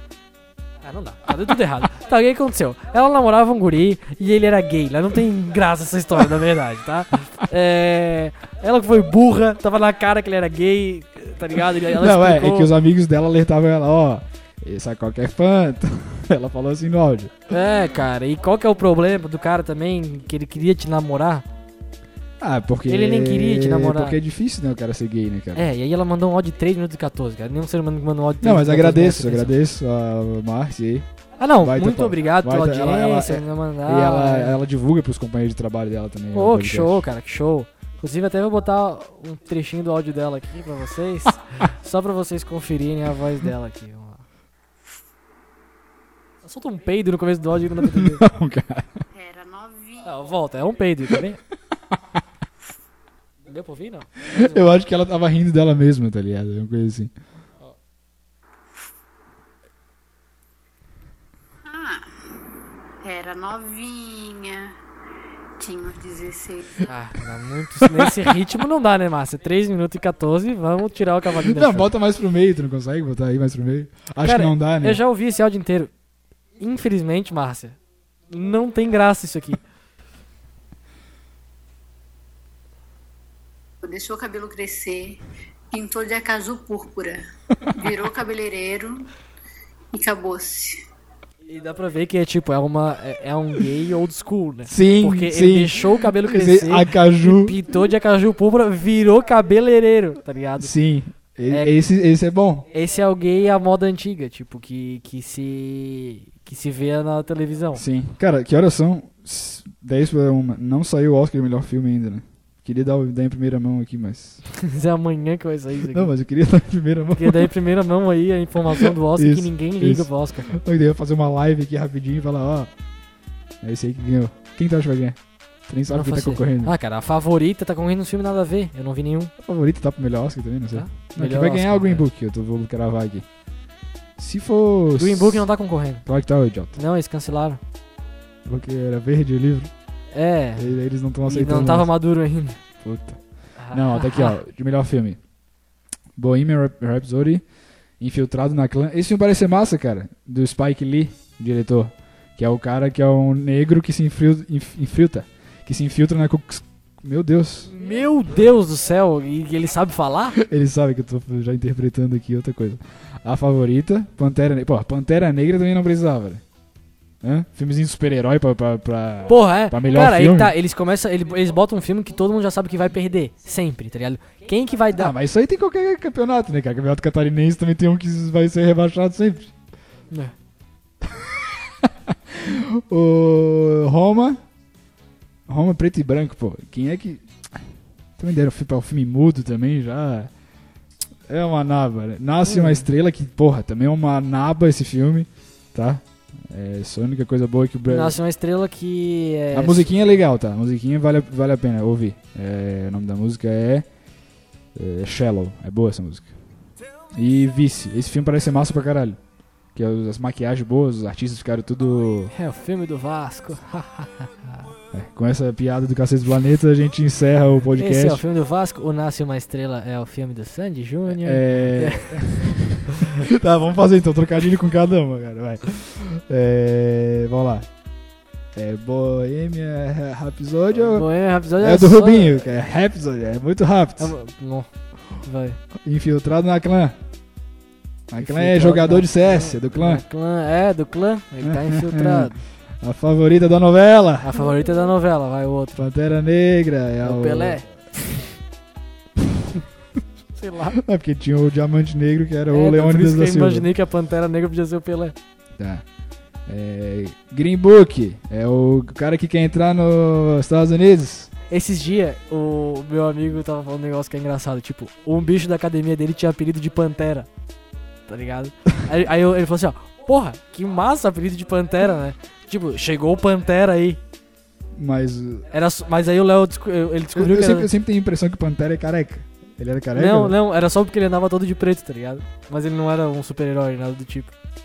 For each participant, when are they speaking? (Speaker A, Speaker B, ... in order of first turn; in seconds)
Speaker A: 0.8-12.7, 17.5-21.4, 22.9-24.2, 25.6-29.6, 31.4-34.6, 36.3-44.2, 46.4-48.2, 50.0-51.4, 53.5-54.7, 66.9-71.9, 74.2-75.9, 76.6-77.8, 78.3-79.6, 91.5-100.7, 102.7-107.8, 114.5-116.1, 117.2-120.6, 125.9-129.3, 130.7-132.1, 135.0-136.0, 136.7-137.6, 140.1-140.7, 141.3-142.6, 143.6-144.4, 157.7-160.4, 169.3-175.1, 192.4-192.9, 197.9-199.9, 212.3-214.6, 217.8-222.3, 230.8-232.5, 234.0-235.6, 238.2-242.4, 244.2-245.8, 247.0-247.7, 250.3-250.8, 252.5-255.2, 261.5-267.3, 268.1-274.0, 275.5-277.7, 279.9-284.3
Speaker B: 11.9-17.4, 22.4-25.6, 28.4-31.1, 31.6-37.0, 47.8-49.0, 54.3-57.1, 67.8-68.2, 71.4-75.0, 94.7-97.6, 100.6-102.7, 107.8-114.4, 115.9-117.5, 118.7-122.7, 123.6-126.7, 129.4-133.3, 134.2-135.5, 136.1-136.8, 138.4-139.7, 140.6-141.9, 142.8-145.2, 146.2-147.4, 148.0-157.7, 160.4-166.4, 167.2-170.6, 174.9-179.5, 181.0-184.4, 185.5-187.6, 188.2-190.3, 191.3-198.2, 199.5-203.9, 204.8-206.3, 207.1-209.2, 209.8-212.3, 214.9-218.2, 221.1-227.7, 228.5-231.1, 231.6-234.1, 235.8-237.0, 238.1-240.0, 241.4-244.4, 245.8-247.7, 250.7-253.7, 255.6-255.8, 256.5-261.3, 274.7-275.5, 277.1-280.3
Speaker C: 49.1-50.2, 61.6-62.0, 63.0-64.8, 65.6-66.9, 83.8-89.1, 89.9-90.8